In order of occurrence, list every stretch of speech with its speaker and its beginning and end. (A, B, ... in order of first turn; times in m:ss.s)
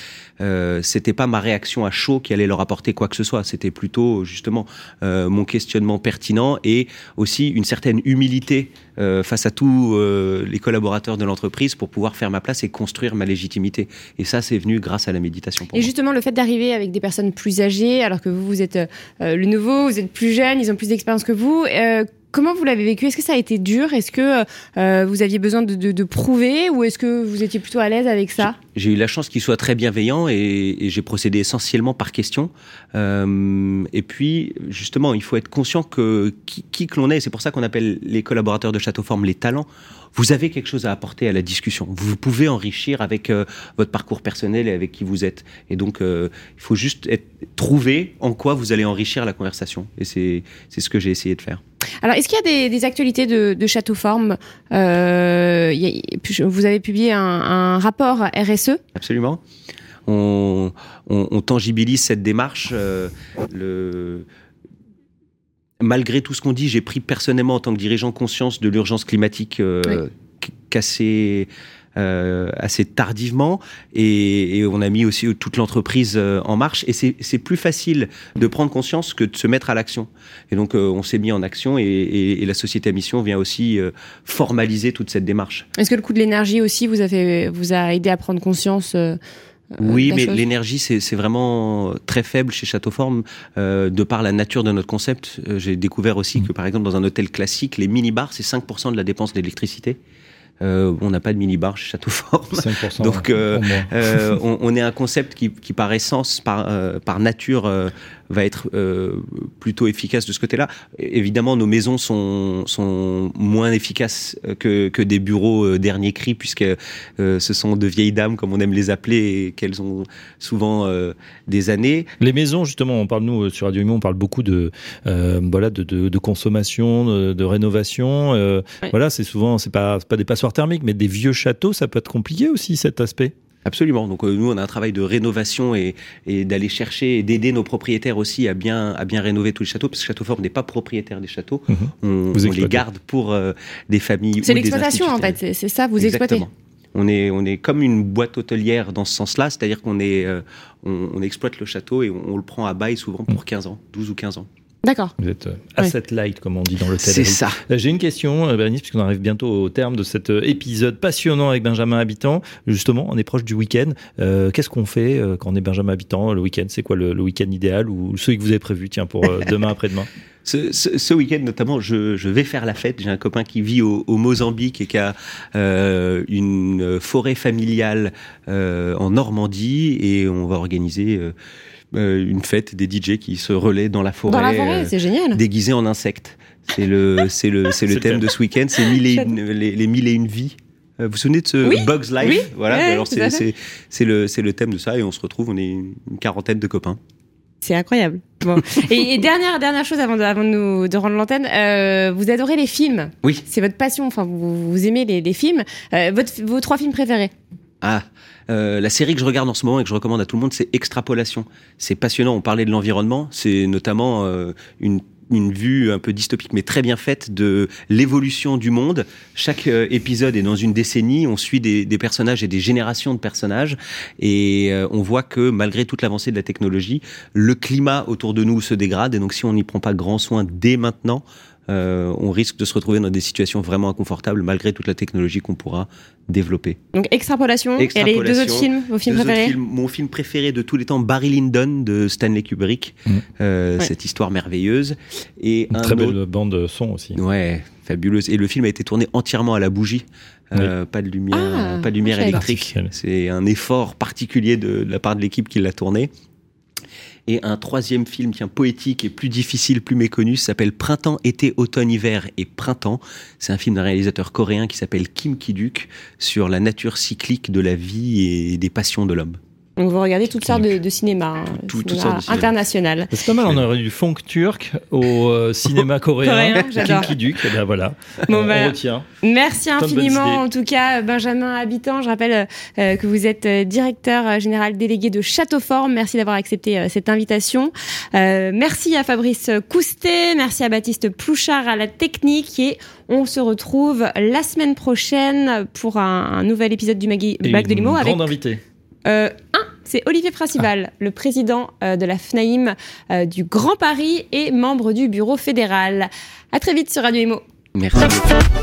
0:00.4-0:15.9 A
0:15.7-0:28.6 B
0:28.4-0:51.6 A
0:52.0-0:58.8 B
0:58.9-0:59.4 A
1:00.0-1:04.2 A
1:05.8-1:25.7 A
1:25.8-1:29.2 B
1:29.7-1:30.4 B
1:29.8-1:40.0 A
1:40.6-2:02.1 A
1:42.5-1:44.4 C
2:02.2-2:13.3 C
2:13.6-2:25.4 A
2:21.7-2:22.8 C
2:24.4-2:26.4 B
2:26.0-2:34.5 A
2:34.8-2:35.1 B
2:35.2-2:50.1 C
2:37.0-2:37.6 A
2:50.4-3:01.3 A
3:01.9-3:17.0 A
3:04.3-3:05.4 B
3:07.9-3:08.3 C
3:11.6-3:13.4 B
3:17.6-3:27.3 B
3:27.8-3:56.8 A
3:56.9-3:59.6 B
3:57.8-4:06.2 A
4:05.7-4:07.2 C
4:07.1-4:16.1 A
4:11.3-4:12.4 B
4:12.2-4:12.9 C
4:17.3-4:29.4 A
4:29.8-4:33.1 B
4:31.6-4:32.6 A
4:33.1-4:39.1 C
4:36.2-4:37.1 B
4:38.3-4:58.3 B
4:39.8-4:40.4 C
4:57.4-4:58.6 C
4:59.0-5:07.4 B
5:07.7-5:08.4 A